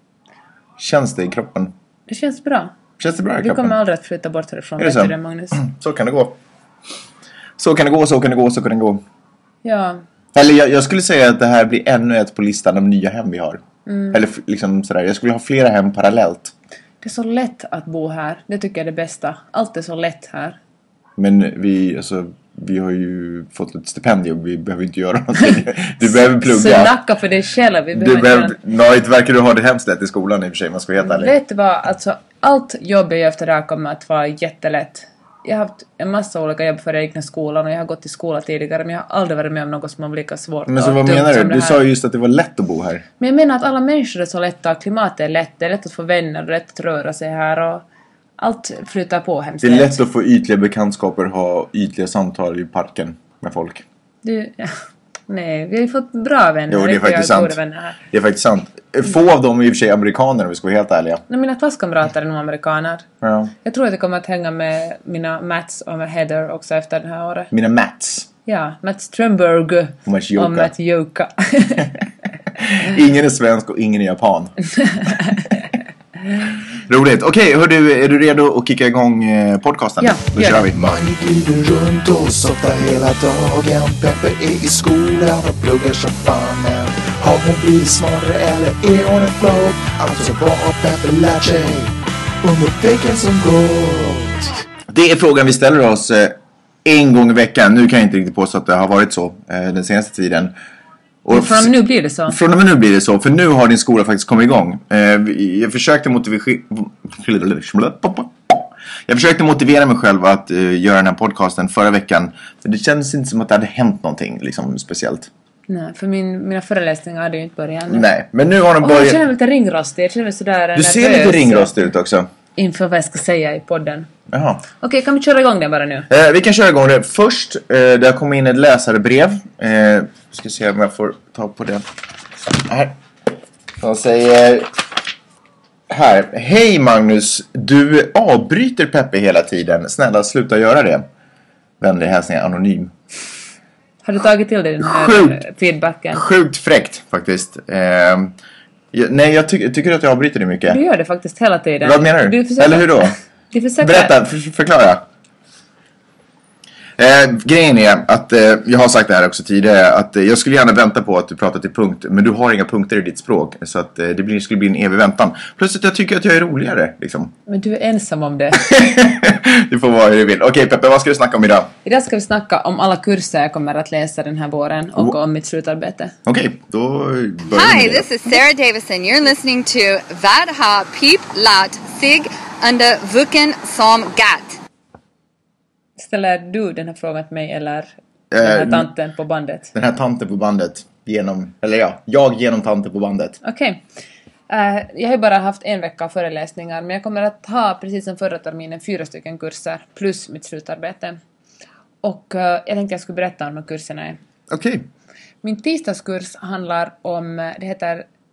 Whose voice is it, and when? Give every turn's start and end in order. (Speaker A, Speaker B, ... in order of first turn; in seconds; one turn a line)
Speaker A: 0.8-1.7
Speaker B: 2.1-2.7
Speaker A: 3.0-3.8
Speaker B: 3.4-5.6
Speaker A: 4.8-6.4
Speaker A: 7.6-9.0
Speaker B: 9.6-10.0
Speaker A: 10.3-16.5
Speaker B: 13.9-14.2
Speaker B: 17.0-20.6
Speaker A: 21.2-26.9
Speaker B: 26.4-28.6
Speaker A: 27.9-31.3
Speaker B: 31.0-41.8
Speaker A: 40.7-43.0
Speaker B: 43.2-47.8
Speaker B: 48.4-50.0
Speaker A: 49.6-53.8
Speaker B: 54.2-54.8
Speaker B: 55.3-58.0
Speaker A: 56.7-57.6
Speaker A: 58.1-61.2
Speaker B: 61.3-63.0
Speaker A: 63.2-63.5
Speaker B: 63.6-67.5
Speaker A: 67.5-68.3
Speaker B: 68.5-72.0
Speaker A: 70.0-70.7
Speaker A: 72.5-74.5
Speaker B: 74.8-75.5
Speaker A: 75.1-75.5
Speaker A: 76.7-81.3
Speaker B: 80.0-80.7
Speaker C: 80.7-91.9
Speaker A: 89.1-89.4
Speaker C: 92.4-94.4
Speaker A: 94.9-100.5
Speaker A: 101.2-101.7
Speaker B: 101.3-102.4
Speaker A: 102.3-115.3
Speaker B: 115.7-118.0
Speaker A: 117.9-119.2
Speaker B: 118.8-121.7
Speaker A: 120.7-122.3
Speaker B: 122.5-124.1
Speaker A: 124.3-124.7
Speaker B: 124.8-126.1
Speaker A: 126.1-131.8
Speaker A: 132.5-132.9
Speaker A: 133.8-134.7
Speaker A: 135.9-141.1
Speaker A: 141.8-142.9
Speaker B: 144.0-146.2
Speaker A: 144.8-145.4
Speaker A: 146.1-148.3
Speaker A: 148.9-150.8
Speaker B: 150.7-154.1
Speaker A: 151.8-153.2
Speaker A: 153.8-155.0
Speaker A: 157.0-167.3
Speaker B: 167.4-168.6
Speaker A: 168.6-171.7
Speaker B: 171.8-176.1
Speaker A: 176.2-178.1
Speaker D: 177.5-184.6
Speaker B: 186.0-189.7
Speaker A: 188.3-188.9
Speaker A: 189.7-193.4
Speaker B: 193.4-193.8
Speaker B: 194.5-201.2
Speaker B: 202.0-204.2
Speaker A: 204.5-204.9
Speaker B: 205.4-208.1